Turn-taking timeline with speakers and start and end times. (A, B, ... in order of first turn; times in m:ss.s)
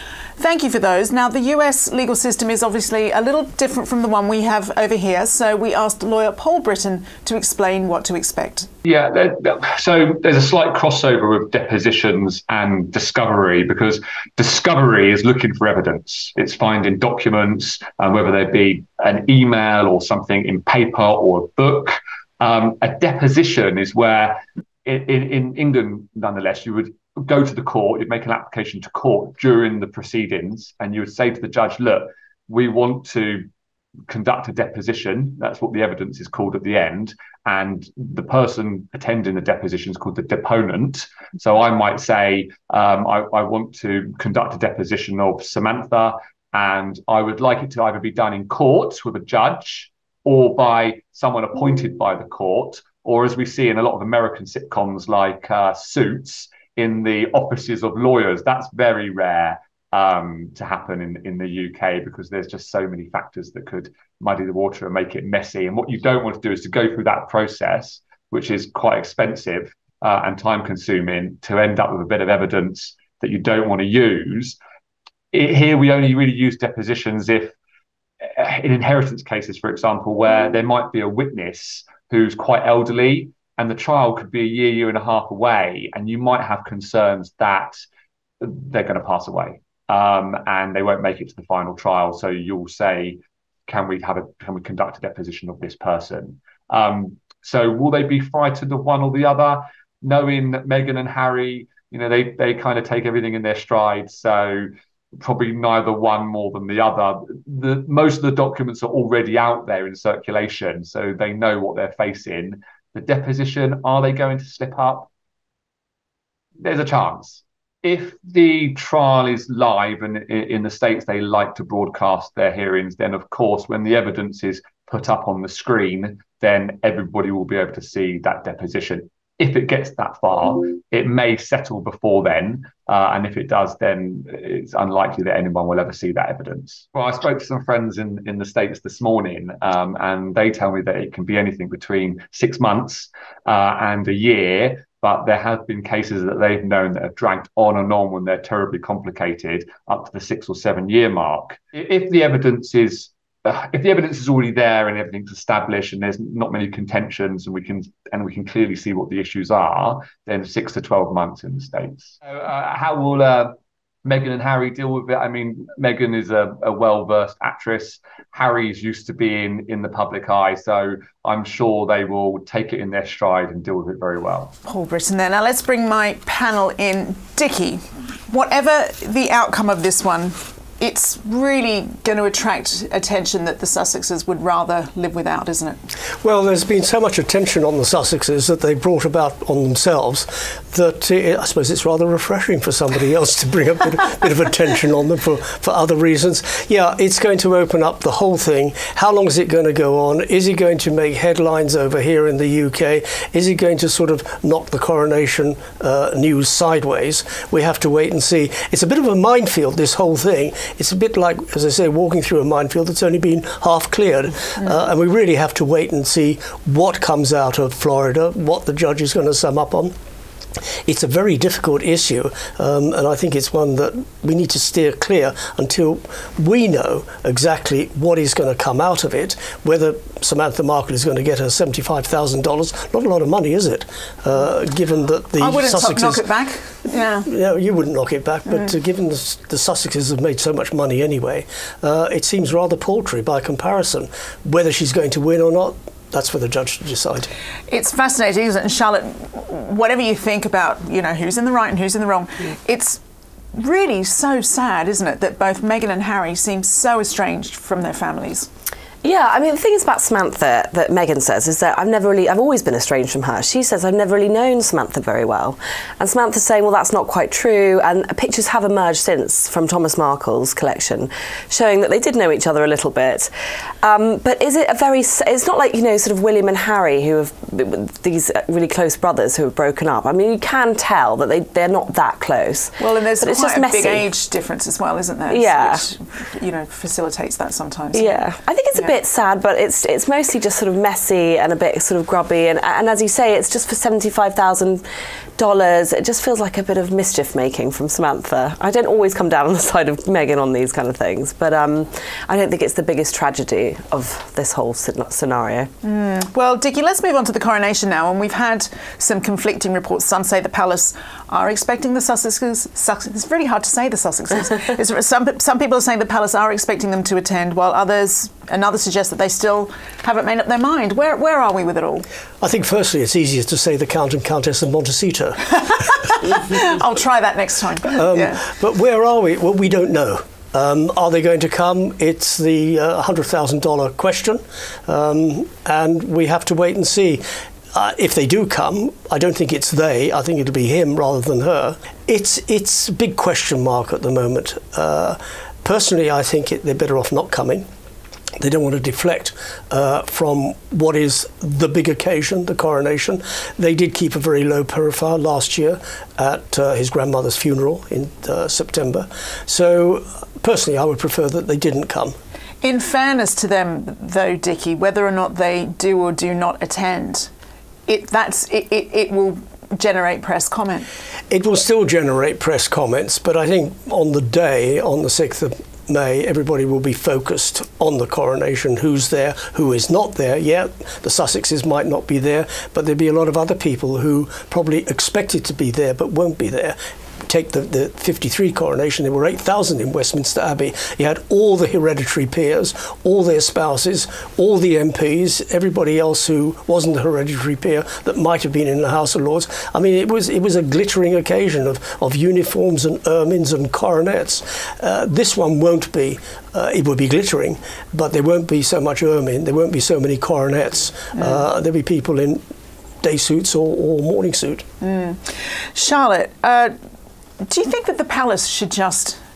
0:00.4-0:08.7 A
0:08.8-0:33.5 B
0:34.1-1:14.6 B
1:15.3-1:17.6 B
1:18.4-1:27.8 B
1:28.4-1:55.1 B
1:56.6-2:54.6 B
2:54.6-3:05.8 A
3:06.2-3:39.9 C
3:40.9-3:56.3 C
3:55.4-3:57.3 A
3:57.3-4:07.3 C
4:07.7-4:13.0 A
4:13.5-4:18.5 A
4:19.0-4:33.3 D
4:33.8-4:44.1 D
4:42.8-4:48.2 A
4:45.3-4:45.9 D
4:47.9-4:54.8 D
4:55.4-5:05.7 D
5:05.8-5:22.0 A
5:22.4-5:25.7 C
5:26.1-5:28.4 A
5:27.9-5:47.7 C
5:48.4-6:02.2 C
6:02.6-6:07.3 A
6:07.9-6:10.9 A
6:11.3-6:52.4 C
6:51.1-6:51.4 A
6:53.0-6:54.7 C
6:54.8-6:56.7 A
6:57.4-6:59.2 A